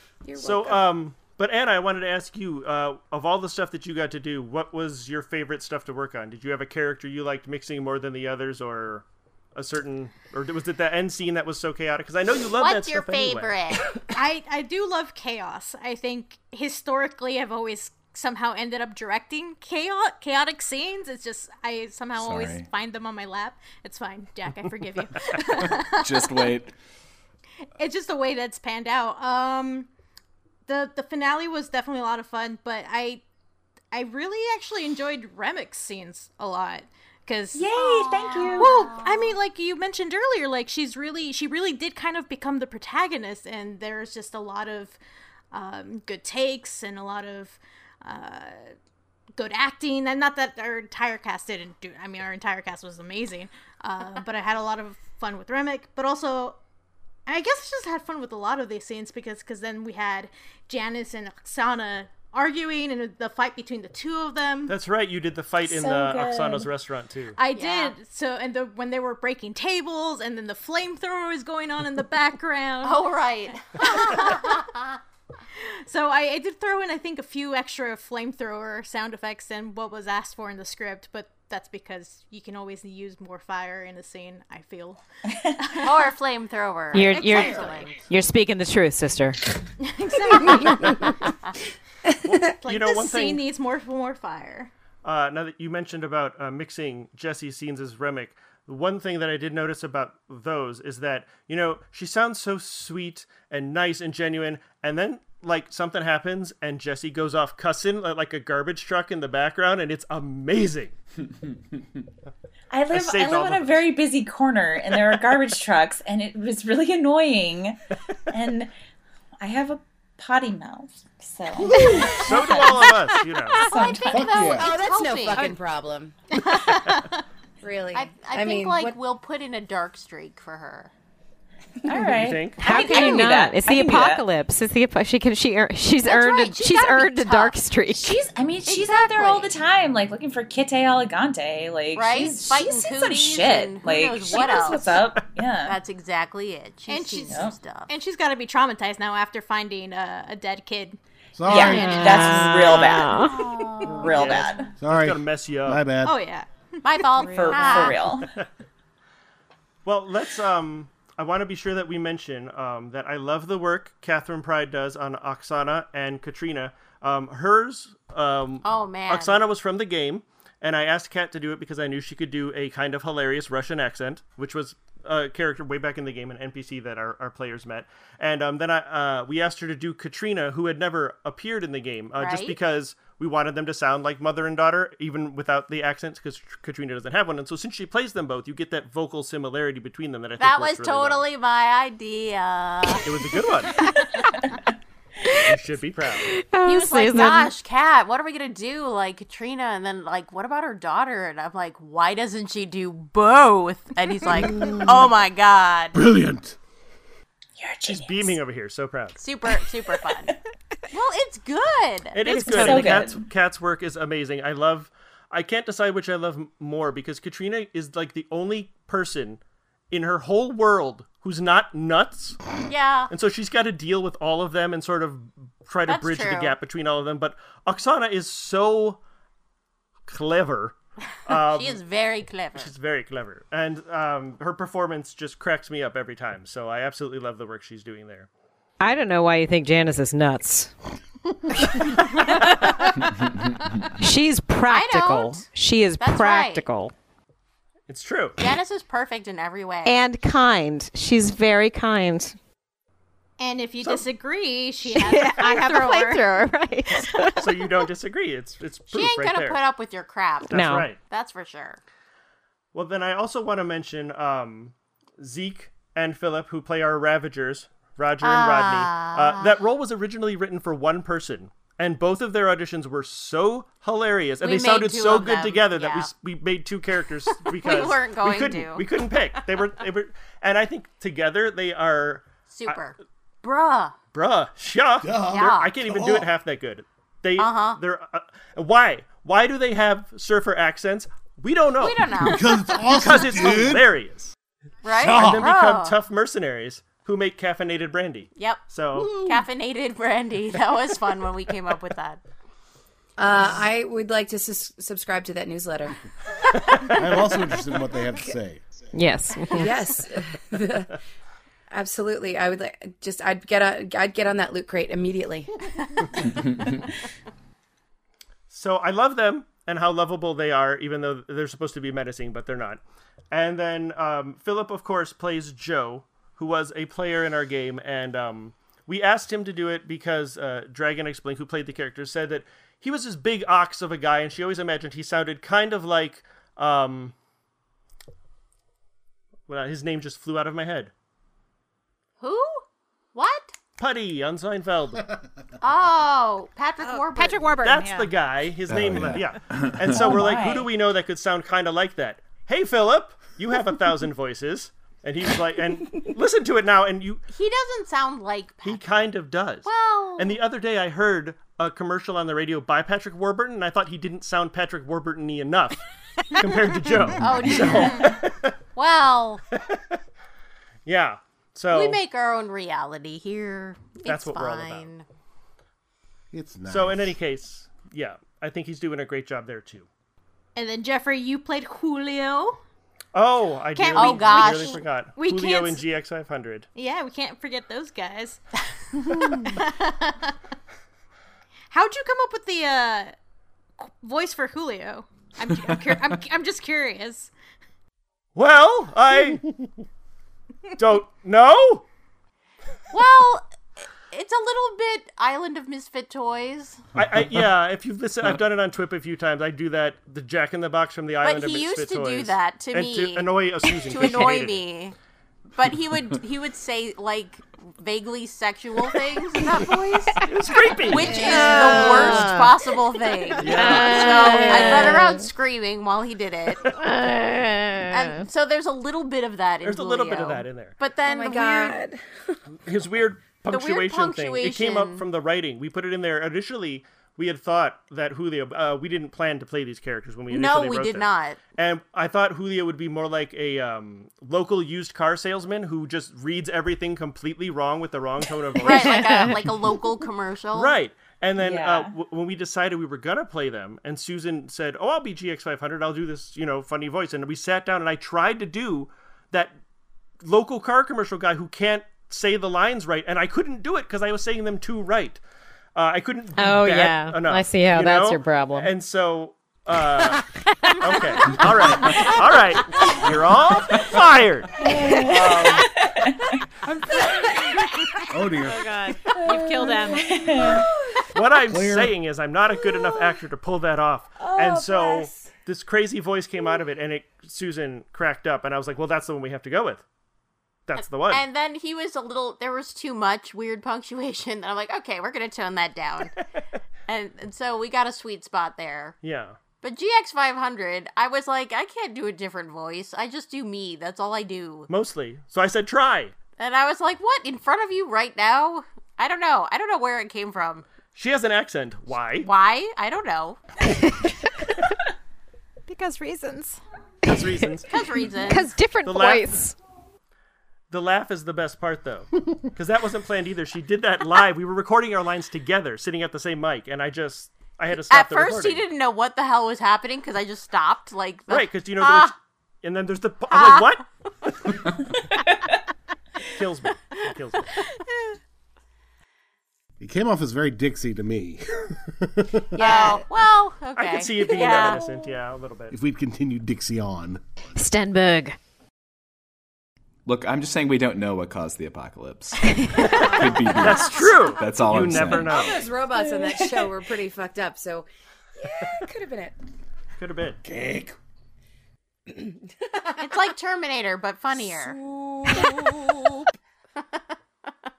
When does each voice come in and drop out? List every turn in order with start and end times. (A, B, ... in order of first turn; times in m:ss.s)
0:00.2-0:00.8 A
0:00.4-0:13.6 B
0:12.6-0:13.9 C
0:14.1-0:26.3 D
0:22.1-0:22.7 E
0:25.6-0:26.7 E
0:27.8-0:29.9 D
0:30.7-0:33.2 D
0:33.9-0:45.0 D
0:37.5-0:38.9 F
0:37.9-0:39.2 C
0:45.5-0:48.7 D
0:49.4-0:56.6 D
0:57.3-1:04.7 D
1:04.7-1:07.4 B
1:05.6-1:06.7 F
1:07.4-1:13.0 D
1:07.5-1:07.9 C
1:12.8-1:14.9 C
1:13.7-1:14.6 D
1:15.6-1:25.0 D
1:25.5-1:26.1 D
1:25.8-1:28.0 C
1:26.9-1:29.4 G
1:29.8-1:31.1 D
1:30.7-1:31.1 A
1:32.2-1:33.4 B
1:32.5-1:34.7 D
1:35.0-1:50.9 B
1:52.7-1:58.7 F
1:52.9-1:53.9 B
1:59.4-2:02.9 F
2:01.6-2:02.1 H
2:02.1-2:03.6 B
2:03.6-2:04.5 F
2:03.6-2:05.5 C
2:04.1-2:04.7 H
2:04.5-2:06.8 A
2:06.5-2:07.1 D
2:07.6-2:09.0 A
2:07.9-2:10.9 C
2:11.9-2:14.2 F
2:12.2-2:12.6 B
2:12.6-2:18.2 G
2:16.0-2:17.6 C
2:17.9-2:25.8 F
2:18.6-2:19.5 C
2:21.9-2:25.0 C
2:25.6-2:27.9 C
2:26.9-2:31.0 D
2:27.3-2:27.5 F
2:31.4-2:32.1 H
2:31.4-2:34.7 F
2:31.5-2:32.7 D
2:32.0-2:33.4 G
2:33.1-2:34.5 C
2:34.0-2:35.8 B
2:34.8-2:36.2 H
2:36.0-2:37.9 D
2:36.8-2:38.0 C
2:37.2-2:38.3 F
2:39.8-3:11.3 B
2:48.6-2:49.4 C
3:02.2-3:02.6 C
3:10.4-3:13.1 C
3:13.0-3:13.7 B
3:15.2-3:15.5 G
3:15.4-3:16.3 B
3:16.2-3:17.5 G
3:16.6-3:26.0 C
3:24.5-3:24.9 H
3:25.9-3:26.6 H
3:27.6-3:28.4 F
3:27.9-3:29.2 B
3:29.2-3:30.4 C
3:30.9-3:32.2 C
3:32.1-3:39.4 B
3:32.2-3:32.9 I
3:32.4-3:33.2 F
3:39.9-3:42.4 B
3:42.6-3:43.1 C
3:43.1-3:49.0 B
3:45.9-3:46.6 C
3:50.1-3:51.8 B
3:51.3-3:52.7 C
3:52.5-3:58.3 B
3:58.8-4:00.7 G
4:01.5-4:03.1 G
4:04.0-4:06.9 G
4:04.7-4:06.6 C
4:07.9-4:08.4 B
4:08.4-4:10.0 C
4:09.8-4:12.4 G
4:13.4-4:16.2 D
4:14.9-4:17.6 G
4:17.3-4:19.6 B
4:18.9-4:21.8 C
4:20.5-4:21.0 B
4:20.5-4:20.9 G
4:22.7-4:42.8 B
4:28.2-4:29.5 C
4:34.4-4:36.1 C
4:37.4-4:38.9 C
4:42.5-4:44.0 C
4:44.1-4:52.1 B
4:45.0-4:46.3 H
4:45.3-4:45.7 C
4:47.4-4:47.8 C
4:51.8-4:53.2 C
4:52.1-4:53.9 H
4:52.9-4:54.3 B
4:54.8-4:55.9 C
4:54.9-4:55.5 H
4:55.1-4:59.1 B
4:58.4-5:02.2 C
5:03.2-5:06.0 A
5:06.9-5:08.8 H
5:08.9-5:09.8 G
5:09.5-5:11.0 A
5:11.7-5:16.1 A
5:18.5-5:22.8 B
5:23.3-5:37.1 B
5:39.5-5:40.9 B
5:42.2-5:42.6 C
5:43.1-5:43.5 C
5:43.8-5:45.0 B
5:45.6-5:47.6 C
5:46.8-5:48.1 I
5:47.6-5:57.2 B
5:48.7-5:50.1 E
5:49.9-5:50.7 F
5:57.3-5:58.8 C
5:58.6-6:08.5 B
5:59.6-6:00.4 C
6:07.2-6:08.2 C
6:08.8-6:09.4 C
6:09.6-6:09.8 B
6:10.9-6:12.0 B
6:11.7-6:15.0 C
6:14.0-6:14.9 B
6:16.3-6:17.1 H
6:16.7-6:19.9 B
6:20.5-6:22.6 D
6:23.1-6:26.7 B
6:23.8-6:25.8 D
6:23.9-6:24.8 C
6:26.8-6:28.4 D
6:29.0-6:30.3 D
6:31.7-6:33.1 D
6:33.8-6:37.3 D
6:38.4-6:39.4 B
6:40.8-6:41.8 B
6:42.9-6:43.4 C
6:44.1-6:46.8 C
6:47.0-6:54.6 B
6:51.2-6:54.9 C
6:55.5-7:00.3 C
7:00.2-7:02.2 B
7:00.9-7:06.7 C
7:01.2-7:02.5 G
7:03.4-7:04.9 B
7:03.4-7:05.2 G
7:06.6-7:08.2 G
7:07.9-7:11.8 C
7:09.6-7:10.8 B
7:11.0-7:12.4 A
7:12.6-7:29.3 B
7:13.5-7:15.0 C
7:20.3-7:21.4 C
7:28.6-7:30.7 C
7:28.7-7:29.3 G
7:30.5-7:39.5 B
7:31.4-7:31.9 F
7:40.2-7:45.2 B
7:45.7-7:55.7 B
7:46.4-7:48.7 G
7:54.6-7:56.3 F
7:58.1-7:58.8 H
7:58.4-8:00.6 I
7:59.1-8:00.7 F
8:00.5-8:01.0 A
8:01.1-8:09.8 B
8:01.5-8:01.9 H
8:04.2-8:04.9 F
8:04.4-8:05.0 A
8:10.7-8:11.2 B
8:10.8-8:16.1 C
8:16.9-8:19.0 C
8:19.0-8:19.4 B
8:19.6-8:24.7 C
8:24.7-8:26.1 B
8:26.4-8:30.6 C
8:30.9-8:32.3 B
8:32.2-8:33.4 C
8:35.6-8:36.6 I
8:37.0-8:37.7 B
8:37.7-8:38.5 C
8:38.2-8:39.6 G
8:38.8-8:39.4 B
8:40.7-8:48.6 B
8:47.8-8:52.1 C
8:51.3-8:53.8 B
8:53.3-8:53.7 C
8:56.3-8:57.6 B
8:59.8-9:02.6 H
9:02.6-9:04.8 C
9:02.7-9:03.0 F
9:03.8-9:05.8 B
9:05.7-9:07.2 H
9:07.6-9:08.4 G
9:10.0-9:15.4 E
9:12.5-9:13.0 G
9:12.8-9:15.6 B
9:15.3-9:19.3 A
9:20.0-9:20.4 B
9:20.4-9:21.0 H
9:22.1-9:23.1 A
9:23.0-9:24.8 C
9:24.4-9:26.2 A